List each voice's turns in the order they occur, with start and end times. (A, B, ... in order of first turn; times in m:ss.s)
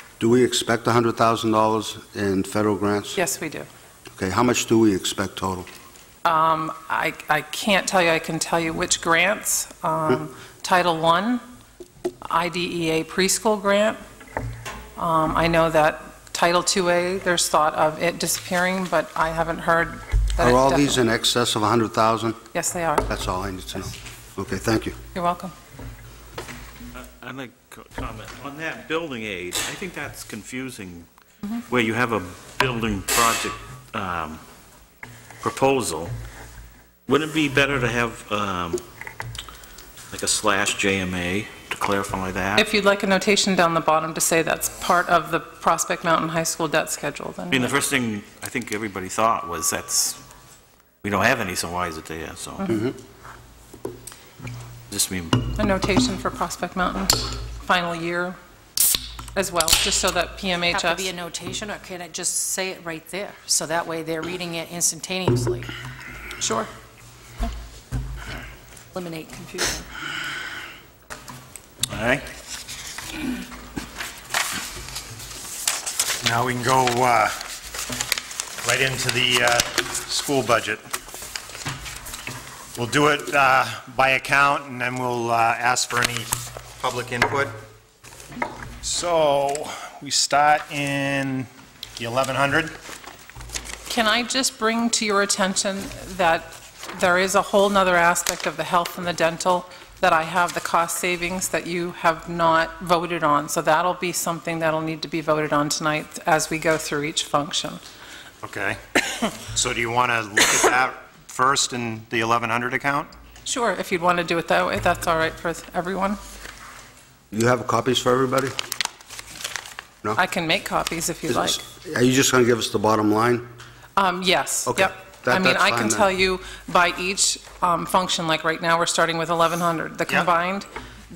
0:00.2-0:03.2 A
0:03.1-0:03.7 B
0:04.2-0:05.7 A
0:06.2-0:11.4 B
0:12.2-0:14.0 B
0:15.0-0:21.0 B
0:20.4-0:22.4 A
0:22.5-0:23.1 B
0:23.1-0:25.0 A
0:25.1-0:25.5 B
0:26.9-0:31.1 C
0:31.7-0:34.4 C
0:35.4-0:36.1 C
0:37.1-0:38.8 C
0:40.1-0:42.6 C
0:42.6-0:47.8 B
0:47.5-0:50.2 C
0:51.0-0:52.6 C
0:52.7-0:53.0 A
0:54.9-0:55.5 C
0:55.6-0:58.4 B
0:59.3-1:01.1 B
1:00.7-1:05.7 D
1:06.4-1:06.7 B
1:09.0-1:09.8 B
1:11.9-1:12.3 C
1:16.2-1:17.3 E
1:18.6-1:20.8 E
1:22.8-1:27.6 E
1:28.8-1:32.8 E
1:33.9-1:47.8 B
1:48.4-1:53.1 E
1:53.4-1:56.2 B
1:57.3-1:58.5 A
2:00.2-2:01.6 B
2:01.3-2:03.5 A
2:04.0-2:10.7 B
2:04.7-2:06.1 A